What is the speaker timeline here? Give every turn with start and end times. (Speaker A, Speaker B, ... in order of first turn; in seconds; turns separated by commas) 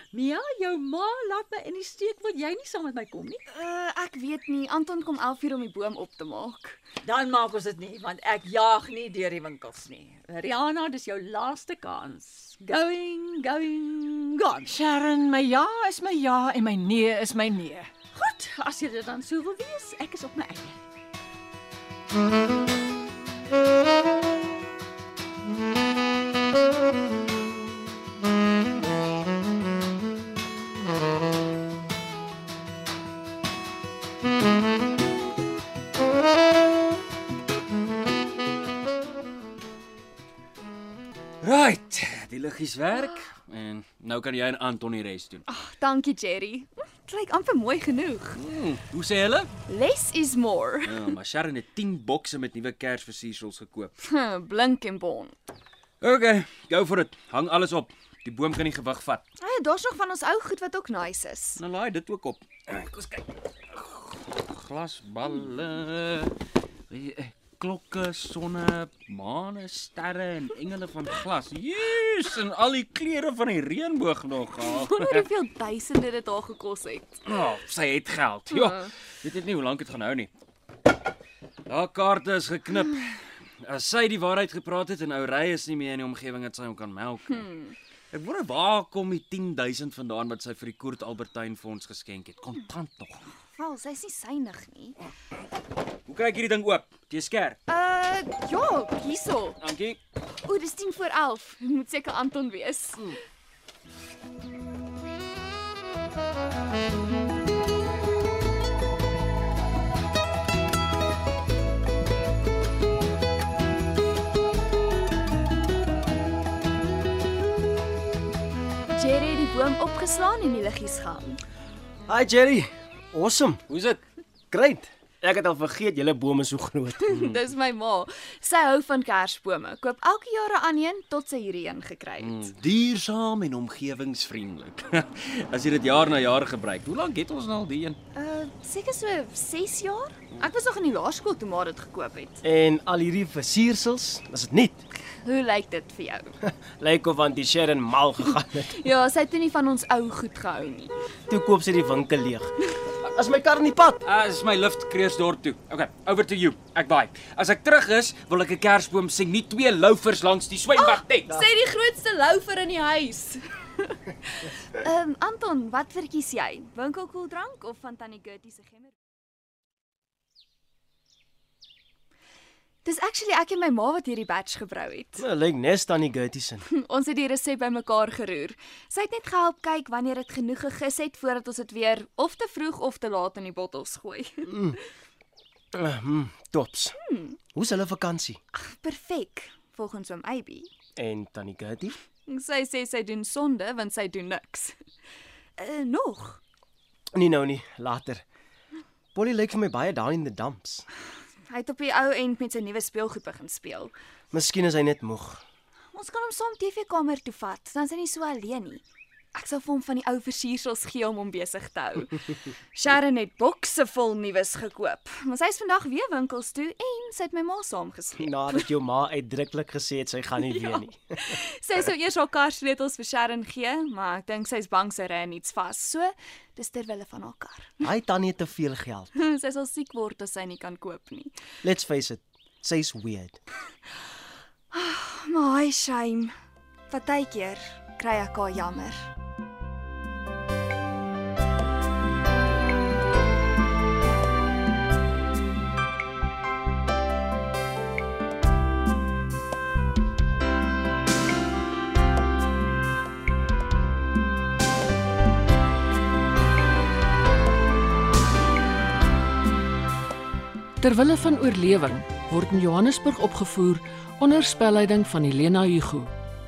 Speaker A: 0.1-3.4, Speaker B: 3.5-6.8, Speaker A: 7.0-14.8, Speaker C: 14.7-17.9, Speaker A: 18.1-20.8, Speaker D: 41.4-45.4, Speaker B: 45.5-48.4, Speaker D: 48.4-49.5, Speaker B: 49.7-51.1, Speaker D: 50.8-53.9, Speaker B: 54.0-55.4, Speaker D: 56.0-59.2, Speaker B: 59.4-61.6, Speaker D: 61.6-63.2, Speaker D: 63.7-66.3, Speaker D: 66.9-75.3, Speaker B: 74.6-77.2, Speaker D: 77.3-80.3, Speaker D: 81.7-87.5, Speaker D: 88.1-93.2, Speaker B: 93.5-95.0, Speaker D: 96.1-97.6, Speaker B: 97.7-99.6, Speaker D: 99.6-100.0, Speaker B: 100.4-103.2, Speaker B: 118.9-121.4, Speaker E: 122.1-123.6, Speaker D: 123.7-124.0, Speaker E: 124.5-127.1, Speaker B: 127.0-132.5, Speaker D: 132.2-138.0, Speaker B: 138.1-142.4, Speaker E: 142.4-144.8, Speaker B: 145.2-146.4, Speaker E: 146.4-148.7, Speaker B: 148.3-150.9, Speaker E: 151.3-152.5, Speaker E: 153.0-154.0, Speaker D: 154.0-161.3, Speaker B: 160.7-163.4, Speaker B: 164.3-168.9, Speaker B: 172.8-175.2, Speaker E: 175.2-176.6, Speaker B: 176.6-184.5, Speaker E: 184.5-184.8, Speaker E: 185.7-187.0, Speaker B: 187.0-187.4, Speaker E: 187.5-188.4, Speaker B: 188.5-190.7, Speaker E: 190.9-191.9, Speaker B: 192.2-194.8, Speaker B: 195.6-196.4, Speaker E: 197.1-198.2, Speaker E: 199.1-200.8, Speaker B: 201.5-203.9, Speaker E: 204.3-205.4, Speaker B: 205.9-208.8, Speaker B: 209.3-212.2, Speaker B: 212.7-218.7, Speaker E: 218.2-221.0, Speaker B: 220.6-227.7, Speaker E: 227.8-229.1, Speaker B: 229.1-231.4, Speaker E: 231.6-233.4, Speaker B: 234.7-236.3, Speaker B: 236.9-239.1, Speaker F: 260.8-266.1